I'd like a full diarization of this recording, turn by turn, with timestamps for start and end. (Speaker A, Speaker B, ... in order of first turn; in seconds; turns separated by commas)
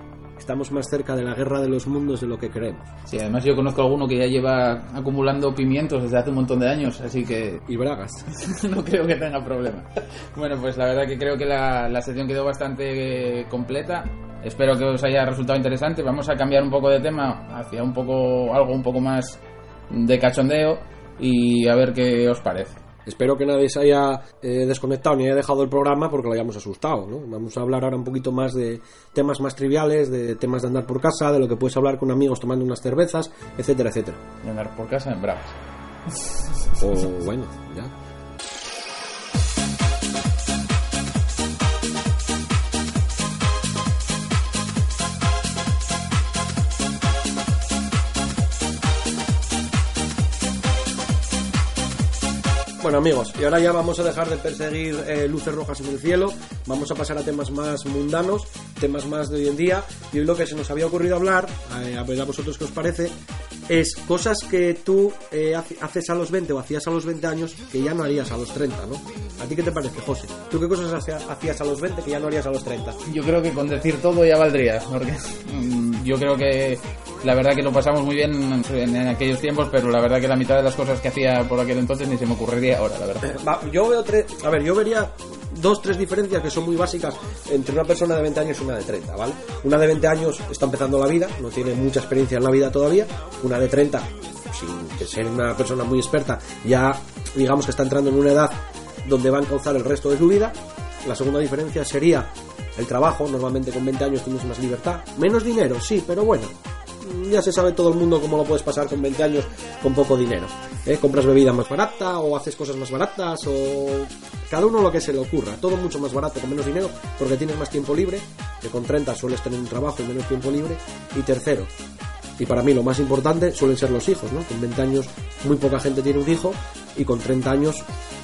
Speaker A: 0.4-2.8, Speaker B: 3.0-7.6, Speaker A: 7.7-8.2, Speaker B: 8.3-19.4, Speaker B: 19.9-22.8, Speaker A: 23.0-34.2, Speaker B: 34.4-35.5, Speaker A: 36.8-37.9, Speaker A: 52.8-63.1, Speaker A: 63.7-73.0, Speaker B: 73.0-83.3, Speaker A: 83.2-121.7, Speaker A: 122.4-127.9